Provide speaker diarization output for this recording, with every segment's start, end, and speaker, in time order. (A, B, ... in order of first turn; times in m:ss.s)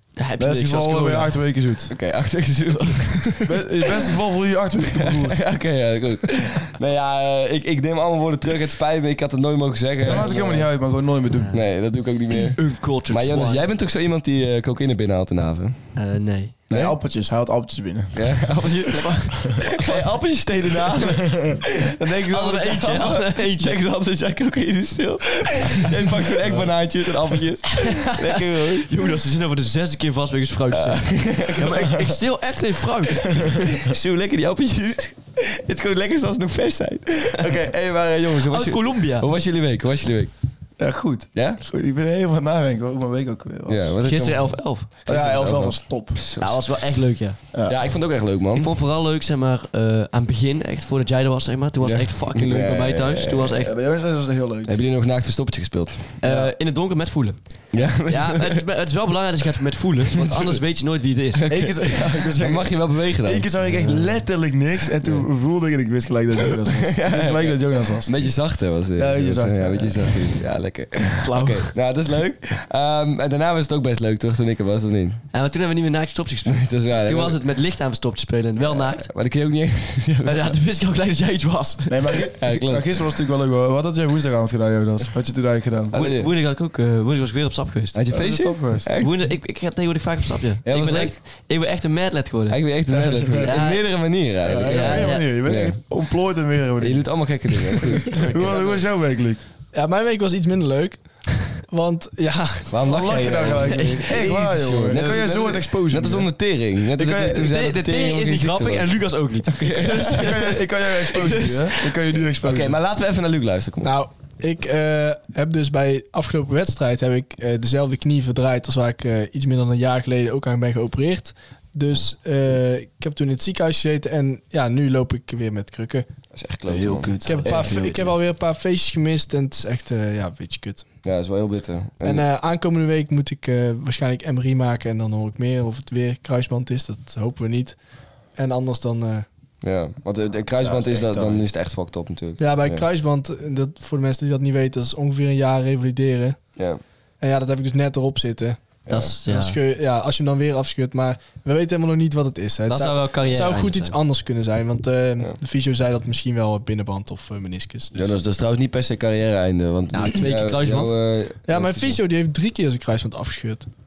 0:00.2-0:01.4 A
0:00.4-0:01.9 B
0:01.9-0:03.6 C
0:02.7-0:03.1 A
0:03.4-0:05.4 B
0:05.0-0:10.8 C
0:10.0-0:11.5 B
0:11.3-0:11.6 A
0:11.5-0:15.8 C
0:12.3-0:13.6 A
0:16.0-0:16.5 A
0:16.7-0:17.0 C
0:16.7-0:18.1 B
0:18.1-0:19.0 C
0:18.4-0:19.8 A
0:19.6-0:28.9 C
0:21.1-0:21.5 B
0:22.3-0:23.8 A
0:27.7-0:33.6 A
0:30.7-0:31.9 C
0:33.3-0:40.3 C
0:38.4-0:39.3 A
0:40.8-0:44.0 B
0:41.3-0:41.6 C
0:43.7-0:46.6 C
0:44.0-0:44.9 A
0:45.1-0:46.2 B
0:46.4-0:47.4 A
0:47.6-0:48.7 C
0:48.5-0:53.7 A
0:51.8-0:53.6 C
0:53.6-0:54.7 B
0:54.6-0:56.1 C
0:56.2-1:01.6 A
0:56.2-0:56.5 B
0:57.7-0:58.6 C
1:00.2-1:00.6 C
1:01.3-1:03.5 C
1:01.5-1:08.2 B
1:03.6-1:04.1 A
1:05.0-1:05.3 C
1:06.8-1:15.2 C
1:09.0-1:10.1 B
1:11.2-1:11.7 A
1:15.3-1:19.1 A
1:16.4-1:17.4 C
1:18.6-1:20.6 C
1:20.2-1:22.2 A
1:21.9-1:26.0 B
1:22.4-1:23.0 C
1:25.9-1:26.3 C
1:25.9-1:28.0 A
1:27.9-1:29.1 C
1:28.1-1:28.9 B
1:29.0-1:32.6 A
1:30.6-1:31.2 C
1:32.5-1:35.8 C
1:32.9-1:33.6 B
1:33.4-1:33.8 A
1:34.4-1:39.4 B
1:34.6-1:35.3 A
1:36.8-1:38.7 C
1:38.1-1:38.8 A
1:39.7-1:42.7 D
1:42.7-1:49.0 C
1:42.8-1:46.3 B
1:43.6-1:44.2 A
1:44.9-1:45.5 A
1:47.0-1:47.5 B
1:47.3-1:52.0 A
1:49.6-1:50.3 C
1:49.6-1:52.7 B
1:52.4-1:53.9 C
1:53.8-2:06.0 D
2:06.3-2:08.1 C
2:06.7-2:08.0 B
2:07.2-2:10.8 D
2:11.0-2:12.2 C
2:12.0-2:17.8 D
2:18.3-2:19.2 D
2:19.6-2:22.8 C
2:20.6-2:21.4 B
2:22.4-2:26.4 D
2:27.2-2:28.6 D
2:28.9-2:29.1 C
2:28.9-2:29.6 A
2:29.2-2:38.1 D
2:32.7-2:34.0 A
2:37.9-2:42.0 C
2:39.9-2:40.9 A
2:41.5-2:43.7 D